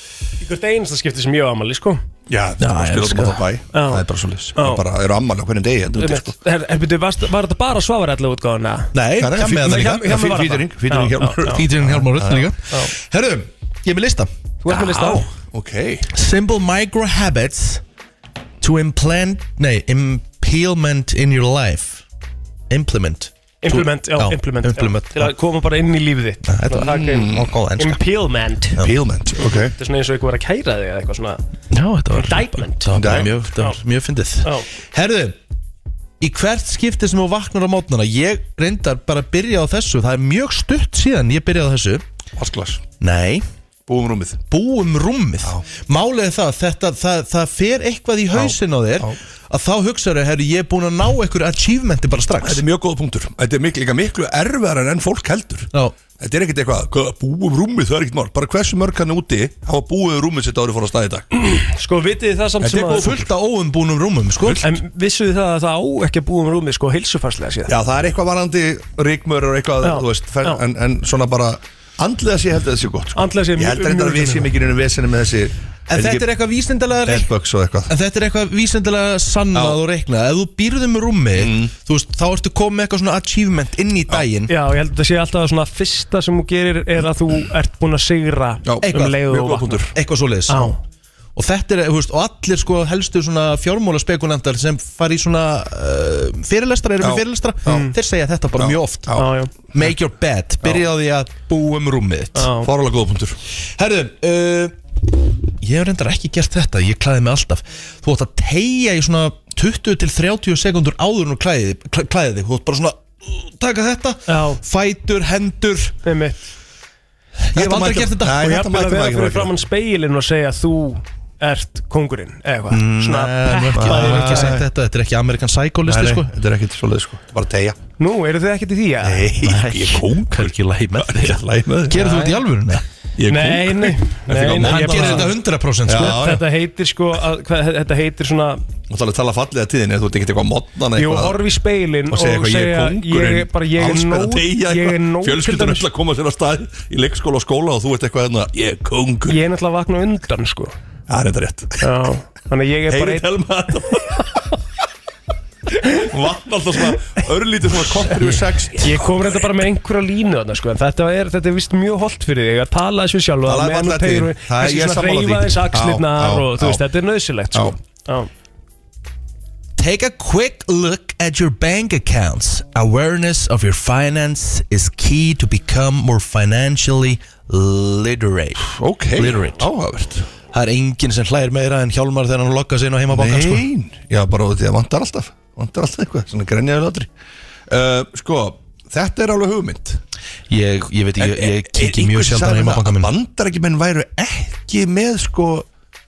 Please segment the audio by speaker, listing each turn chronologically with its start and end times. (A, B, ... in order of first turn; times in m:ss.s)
0:00.4-0:02.0 A
0:02.3-0:06.4 B
0:02.6-0:03.4 C
0:03.7-0:04.8 A
0:06.0-0:08.9 A
0:08.9-0:10.4 C
0:09.2-0:12.5 B
0:09.6-0:11.6 A
0:11.4-0:14.3 C
0:14.6-0:15.3 A
0:14.7-0:16.1 B
0:16.1-0:17.8 C
0:18.6-0:22.0 C
0:22.7-0:25.3 C
0:23.6-0:28.8 A
0:26.4-0:28.0 C
0:26.8-0:27.5 B
0:28.8-0:29.7 B
0:29.7-0:31.4 A
0:31.7-0:35.4 C
0:32.1-0:33.8 A
0:32.9-0:33.4 B
0:36.2-0:42.0 C
0:42.4-0:42.9 B
0:43.0-0:43.4 C
0:43.9-0:44.4 B
0:44.5-0:52.6 C
0:48.3-0:49.1 B
0:52.4-1:01.2 B
1:01.4-1:03.2 A
1:02.6-1:03.2 B
1:02.7-1:04.6 C
1:04.6-1:07.7 A
1:07.7-1:16.3 B
1:09.8-1:10.6 A
1:13.1-1:14.5 A
1:15.9-1:17.3 C
1:17.0-1:17.9 B
1:17.9-1:24.5 C
1:19.5-1:19.8 B
1:21.4-1:21.7 B
1:24.5-1:29.9 A
1:28.6-1:29.9 B
1:28.8-1:29.2 C
1:29.9-1:30.8 C
1:30.5-1:30.8 A
1:31.4-1:39.2 C
1:37.0-1:37.9 B
1:37.7-1:37.9 A
1:38.5-1:39.9 B
1:39.1-1:39.5 A
1:39.7-1:42.5 C
1:42.3-1:42.7 A
1:42.6-1:43.4 B
1:43.8-1:44.7 C
1:45.6-1:56.0 C
1:54.3-1:54.6 A
1:56.0-1:56.4 A
1:57.4-1:58.5 C
1:57.5-1:59.5 B
1:58.3-2:04.6 A
2:02.7-2:06.3 C
2:03.7-2:04.6 B
2:05.8-2:07.8 B
2:08.0-2:09.3 A
2:09.0-2:12.0 B
2:09.3-2:12.8 C
2:12.0-2:12.4 A
2:13.2-2:15.3 B
2:13.3-2:15.3 A
2:14.4-2:16.3 C
2:15.8-2:16.4 B
2:15.9-2:18.6 A
2:18.9-2:21.4 B
2:21.0-2:25.8 A
2:22.1-2:29.4 B
2:29.3-2:30.7 A
2:31.1-2:32.0 B
2:31.8-2:33.3 A
2:32.9-2:34.3 B
2:35.9-2:39.5 B
2:38.8-2:48.3 A
2:43.4-2:46.8 B
2:49.8-2:59.7 C
2:58.6-3:00.3 B
3:00.5-3:03.7 C
3:03.1-3:07.1 B
3:07.7-3:10.0 B
3:10.5-3:13.1 C
3:11.2-3:15.6 B